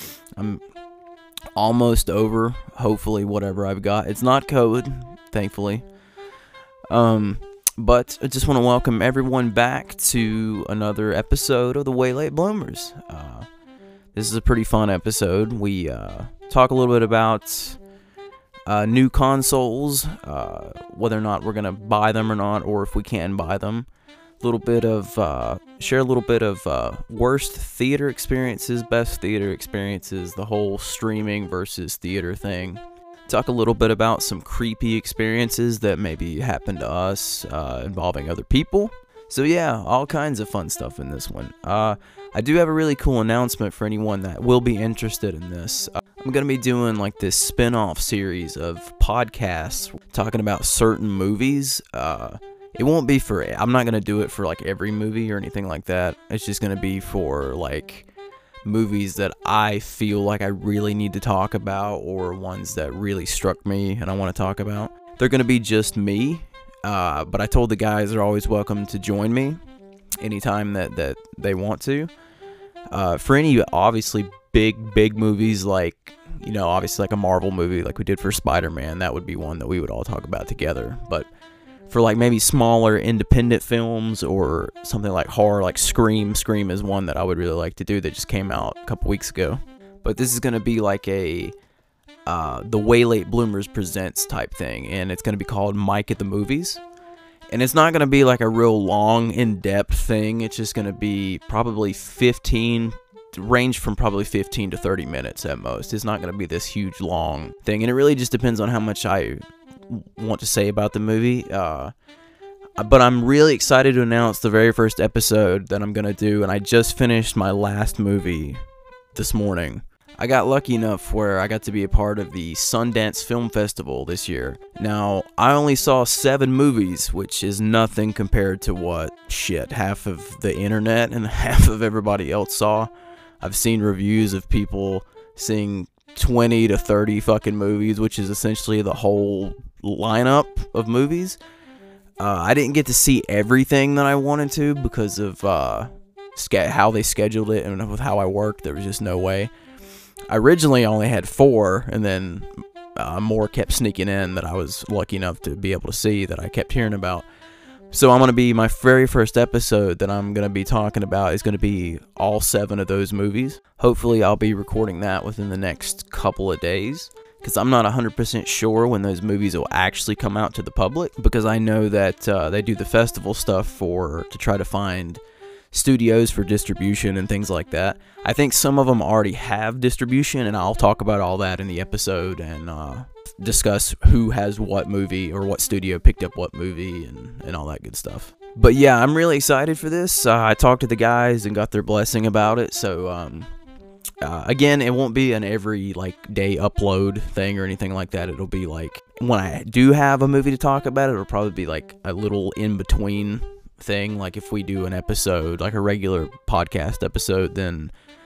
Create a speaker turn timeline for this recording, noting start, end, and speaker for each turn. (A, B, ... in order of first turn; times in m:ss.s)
0:00.4-0:00.6 A
0:01.6-0:05.8 A
0:06.9-0:13.5 A
0:14.1-0:17.8 A
0:18.7-0:23.9 A
0:24.4-0:58.0 A
0:58.6-1:09.6 A
1:10.2-1:12.1 A
1:12.9-1:21.3 A
1:21.9-1:31.5 A
1:32.2-1:36.8 A
1:37.5-1:51.9 A
1:52.8-1:58.6 A
1:59.1-2:12.9 A
2:13.4-2:21.4 A
2:22.2-2:29.5 A
2:30.3-2:37.2 A
2:37.9-2:55.2 A
2:55.7-3:13.5 A
3:14.2-3:27.9 A